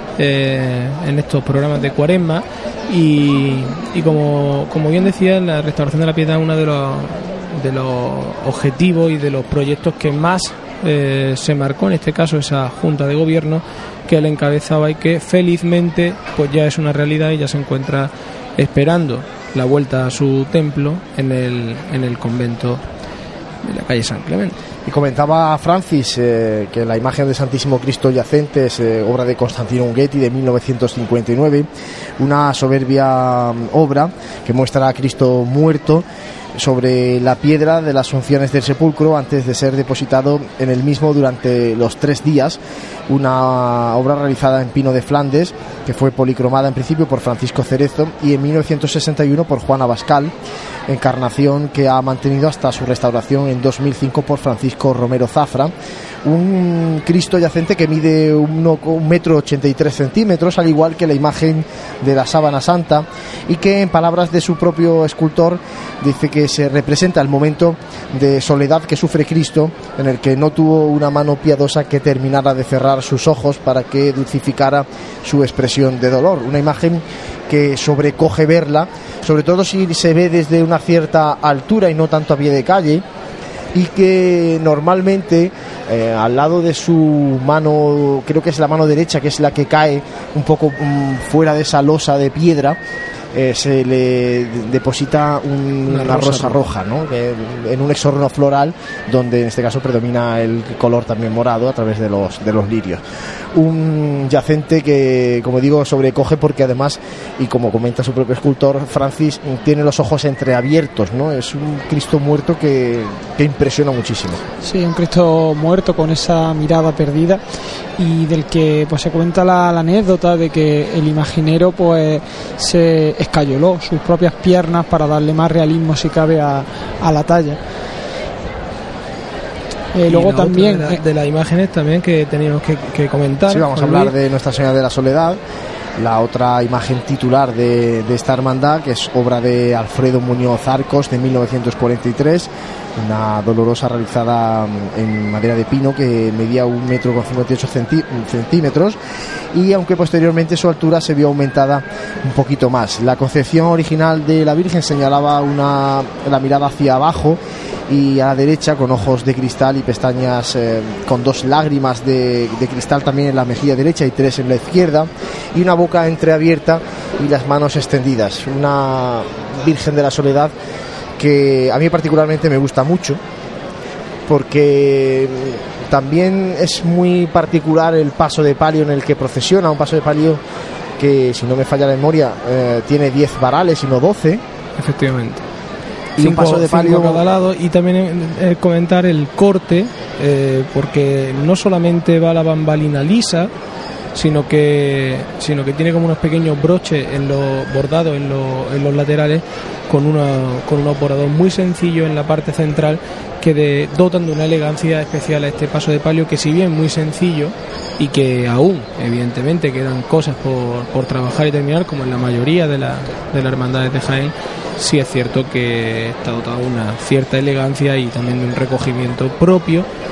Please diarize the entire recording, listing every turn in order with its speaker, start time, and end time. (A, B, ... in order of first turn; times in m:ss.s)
0:00.2-0:22.8 A
0:23.6-0:24.6 A
0:24.8-0:50.3 B
0:50.9-0:55.7 B
0:56.2-1:23.0 B
1:23.7-1:32.8 B
1:33.3-1:43.0 B
1:35.9-1:36.6 A
1:43.5-1:54.4 B
1:54.6-1:57.4 C
1:58.0-2:07.6 C
2:09.9-2:11.0 C
2:10.1-2:14.1 A
2:13.5-2:15.4 B
2:16.0-2:29.0 B
2:29.5-2:50.5 B
2:51.2-2:53.2 B
2:54.3-3:00.4 B
3:01.0-3:04.4 B
3:04.8-3:05.4 A
3:06.2-3:07.2 B
3:06.2-3:13.5 A
3:14.1-3:39.8 A